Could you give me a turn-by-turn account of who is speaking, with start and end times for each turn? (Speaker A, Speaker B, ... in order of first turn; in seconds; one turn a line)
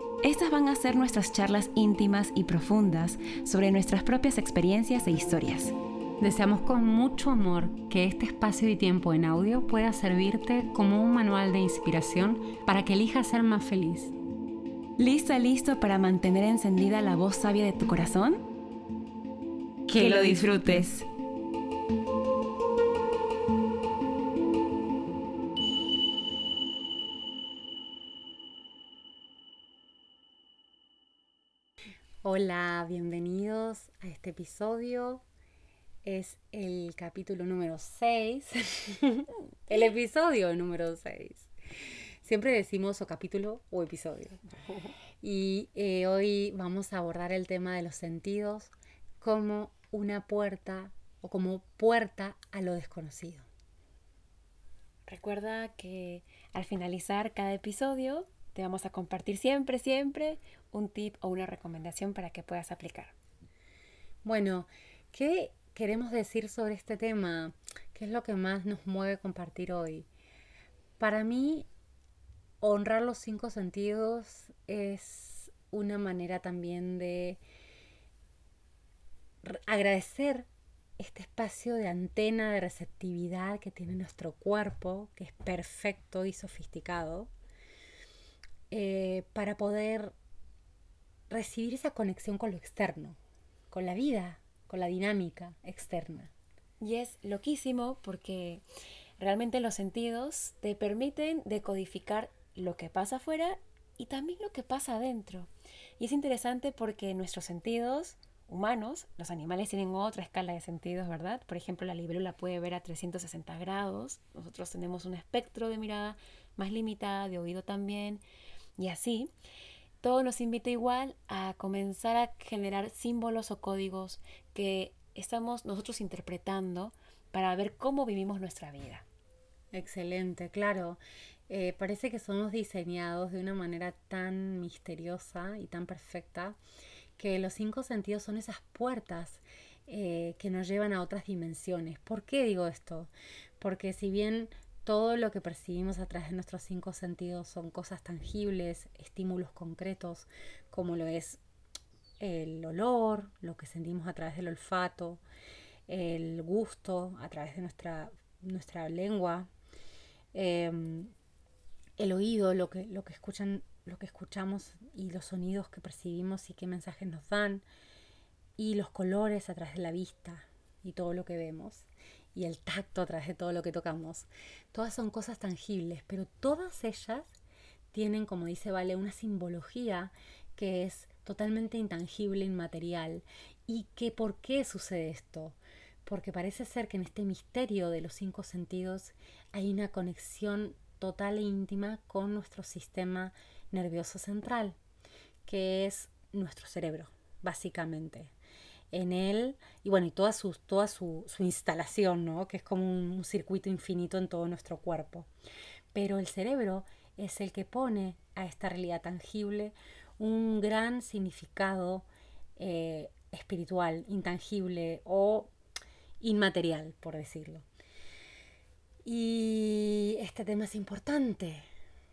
Speaker A: 0.2-5.7
Speaker B: 6.2-14.1
Speaker A: 15.0-18.4
Speaker B: 19.9-20.7
Speaker A: 19.9-21.1
Speaker B: 32.2-35.2
Speaker B: 36.0-41.5
Speaker B: 42.2-44.4
Speaker B: 45.2-53.5
Speaker A: 55.1-63.1
Speaker B: 64.2-70.1
Speaker B: 71.0-71.7
Speaker B: 72.6-77.4
Speaker B: 79.4-87.3
Speaker B: 88.7-90.1
Speaker B: 91.3-93.2
Speaker B: 93.7-96.3
Speaker A: 96.8-98.6
Speaker A: 99.2-118.2
Speaker A: 118.8-119.3
Speaker A: 120.0-129.0
Speaker B: 129.7-136.6
Speaker B: 137.2-151.4
Speaker B: 152.2-155.2
Speaker B: 155.9-159.5
Speaker B: 160.3-161.1
Speaker B: 162.0-167.7
Speaker B: 168.6-177.3
Speaker B: 177.9-194.8
Speaker B: 195.4-198.3
Speaker B: 198.9-205.3
Speaker B: 205.9-215.5
Speaker B: 216.2-217.6
Speaker B: 219.0-221.7